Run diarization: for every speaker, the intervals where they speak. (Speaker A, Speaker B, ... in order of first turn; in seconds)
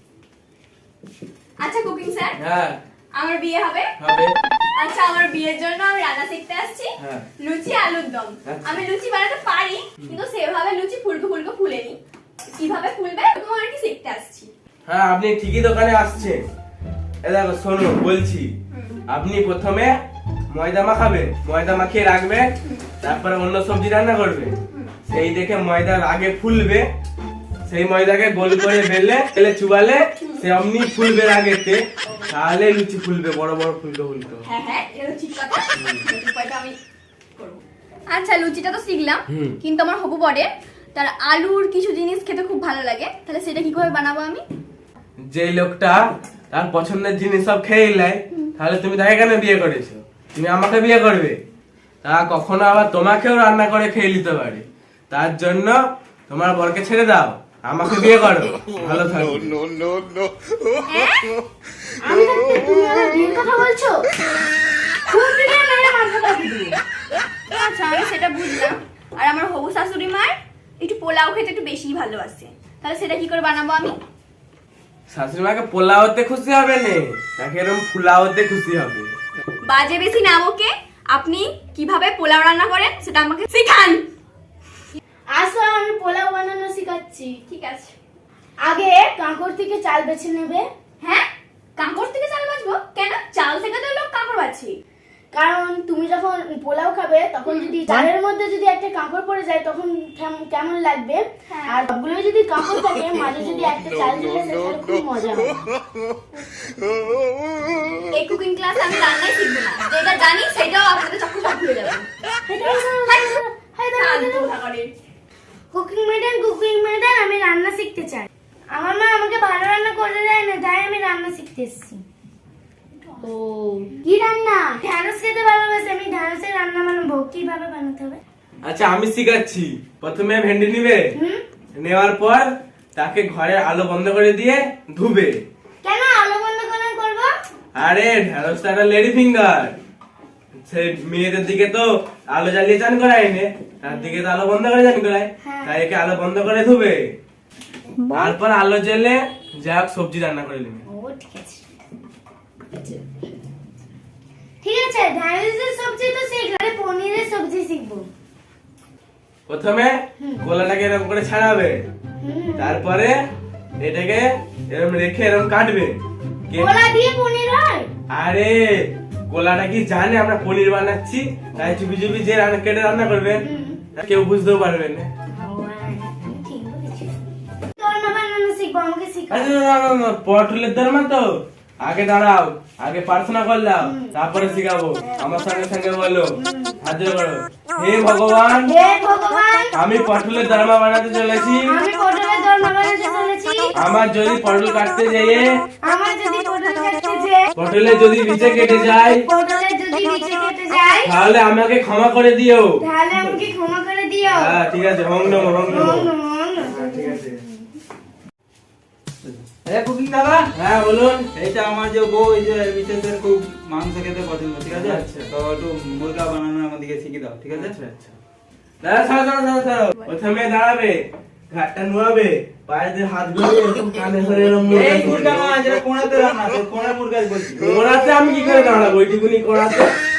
Speaker A: 1.6-2.4, 3.2-3.9, 4.8-12.0, 12.5-14.5, 34.4-36.8, 37.4-44.4, 60.9-61.3, 67.5-74.0, 79.6-84.0, 87.5-87.9, 91.0-94.8, 101.5-101.8, 108.1-112.1, 113.0-113.4, 114.0-114.9
Speaker B: 2.4-2.8, 4.0-4.3, 7.0-7.2, 8.4-8.8, 14.9-16.5, 17.2-18.5, 19.1-19.9, 20.5-26.9, 27.7-34.5, 35.8-36.0, 39.3-39.6, 45.2-51.4, 52.0-59.6, 75.1-79.1, 128.6-131.1, 131.7-135.4, 137.7-139.8, 140.6-147.1, 148.1-150.8, 159.5-161.9, 162.6-163.2, 163.8-166.8, 168.1-175.1, 179.3-181.3, 181.8-188.7, 189.7-191.8, 193.7-195.5, 197.5-199.2, 201.0-202.8, 204.3-206.1, 206.6-207.4, 210.6-211.3, 214.7-215.3, 217.5-218.2, 218.8-225.4, 227.7-229.9
Speaker C: 62.0-64.0, 65.1-66.8, 85.3-87.4, 88.6-90.6, 95.3-105.6, 112.5-114.5, 115.7-122.0, 123.2-128.2, 135.8-137.3, 143.9-144.2, 145.4-145.7, 150.9-151.6, 154.6-158.1, 162.2-162.8, 166.6-167.9, 173.4-173.8, 175.4-177.2, 177.8-179.5, 183.8-184.1, 186.4-186.8, 188.7-189.7, 191.7-193.7, 195.8-197.5, 198.5-201.2, 202.8-204.6, 205.7-207.6
Speaker D: 203.1-203.4, 205.3-206.0, 209.2-210.5, 211.3-217.8, 224.7-227.7